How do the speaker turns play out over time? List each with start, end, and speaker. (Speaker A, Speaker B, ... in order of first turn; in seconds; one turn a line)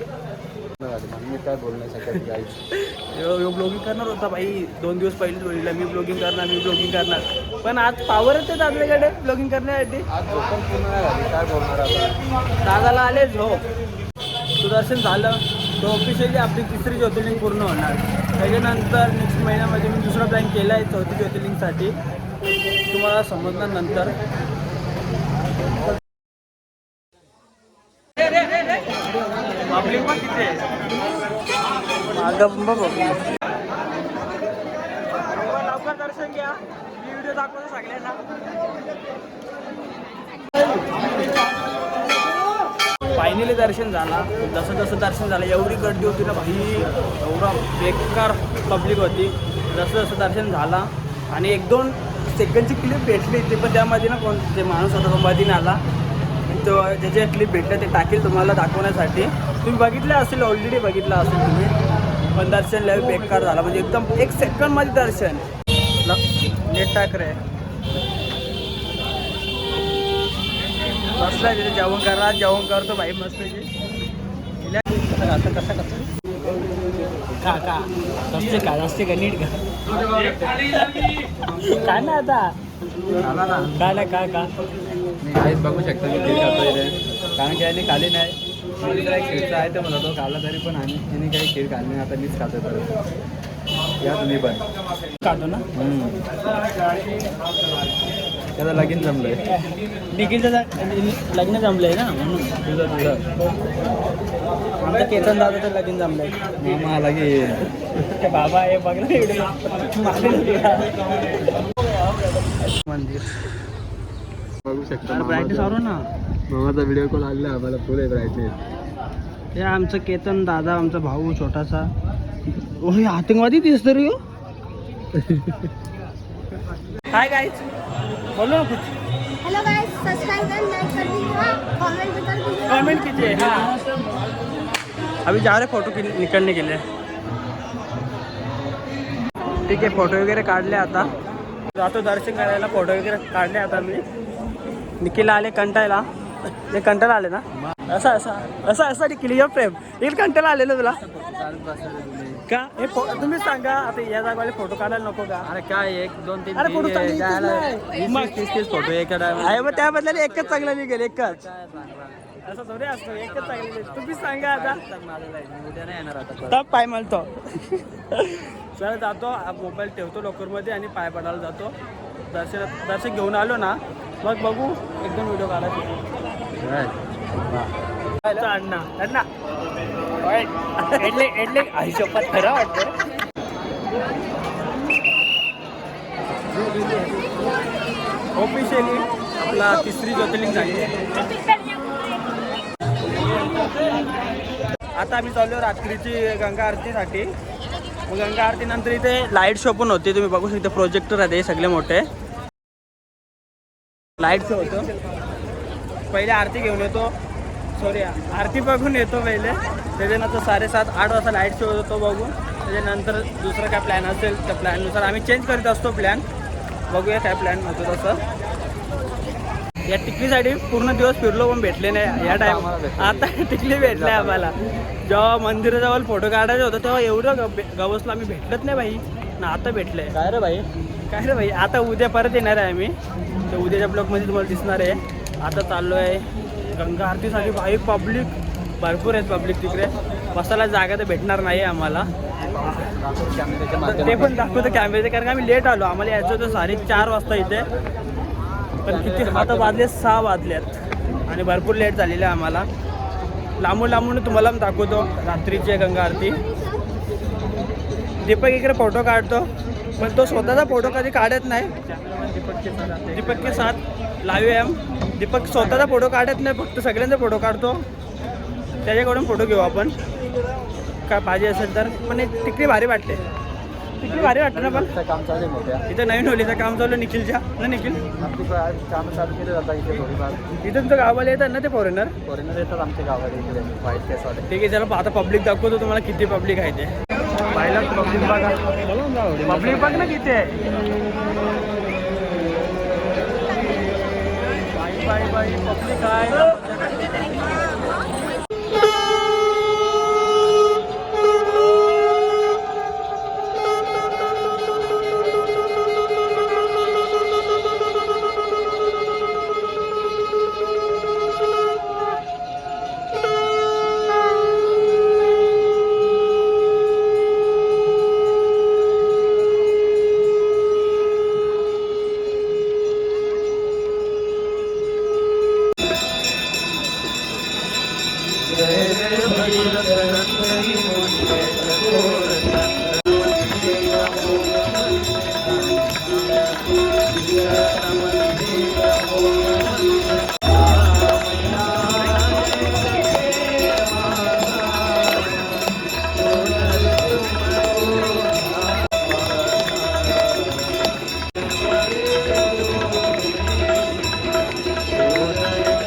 Speaker A: 0.8-2.6
Speaker B: 2.9-10.1
Speaker A: 10.1-12.2
Speaker B: 12.6-13.6
Speaker B: 14.6-21.9
Speaker B: 22.9-24.1
Speaker B: 29.7-30.6
Speaker B: 32.1-33.2
Speaker B: 35.1-38.2
Speaker B: 43.1-55.8
Speaker B: 56.5-61.7
Speaker B: 62.3-65.5
Speaker B: 66.0-67.4
Speaker B: 71.2-73.7
Speaker B: 74.6-76.1
Speaker B: 77.4-79.6
Speaker B: 80.4-82.5
Speaker A: 83.2-84.0
Speaker B: 83.8-84.5
Speaker A: 85.2-92.9
Speaker A: 94.0-94.7
Speaker B: 95.2-95.6
Speaker A: 95.7-96.2
Speaker A: 98.5-99.5
Speaker B: 100.1-102.6
Speaker A: 102.6-103.2
Speaker B: 104.8-106.3
Speaker A: 106.6-107.7
Speaker B: 108.2-111.0
Speaker B: 112.6-113.5
Speaker A: 114.6-115.8
Speaker B: 115.1-116.0
Speaker A: 116.5-118.6
Speaker B: 119.5-121.9
Speaker B: 122.8-124.2
Speaker A: 125.2-125.6
Speaker B: 127.1-127.7
Speaker B: 128.3-128.9
Speaker C: 129.4-132.6
Speaker B: 132.7-133.7
Speaker B: 135.2-136.8
Speaker B: 139.7-141.1
Speaker B: 141.7-144.0
Speaker B: 145.0-146.0
Speaker B: 146.7-151.0
Speaker A: 147.5-148.8
Speaker A: 150.9-152.4
Speaker B: 152.5-155.5
Speaker A: 155.4-162.4
Speaker B: 156.6-158.4
Speaker B: 159.3-161.4
Speaker B: 162.4-164.8
Speaker A: 163.1-166.6
Speaker B: 166.5-171.7
Speaker B: 172.3-175.9
Speaker A: 176.6-177.7
Speaker B: 178.3-179.3
Speaker B: 180.2-182.9
Speaker B: 188.3-191.1
Speaker B: 195.0-197.3
Speaker B: 198.1-202.0
Speaker B: 204.2-204.9
Speaker B: 206.1-207.1
Speaker B: 207.8-216.2
Speaker B: 216.9-218.2
Speaker B: 219.9-224.5
Speaker A: 222.2-224.5
Speaker B: 225.1-230.6
Speaker B: 231.1-232.9
Speaker B: 233.5-236.2
Speaker B: 236.7-242.1
Speaker A: 242.4-244.4
Speaker B: 243.8-247.7
Speaker A: 248.8-249.9
Speaker B: 248.8-250.8
Speaker B: 251.3-252.7
Speaker B: 253.6-256.4
Speaker B: 258.2-261.7
Speaker A: 261.9-263.7
Speaker B: 262.6-267.8
Speaker B: 268.8-269.9
Speaker B: 271.1-273.2
Speaker B: 274.0-274.9
Speaker A: 274.0-275.8
Speaker B: 275.9-278.0
Speaker A: 278.2-280.4
Speaker B: 280.6-282.1
Speaker A: 282.2-284.4
Speaker B: 284.5-286.9
Speaker B: 287.5-288.6
Speaker A: 288.8-290.1
Speaker B: 289.4-290.6
Speaker B: 294.7-297.1
Speaker B: 328.7-332.5
Speaker B: 337.7-338.4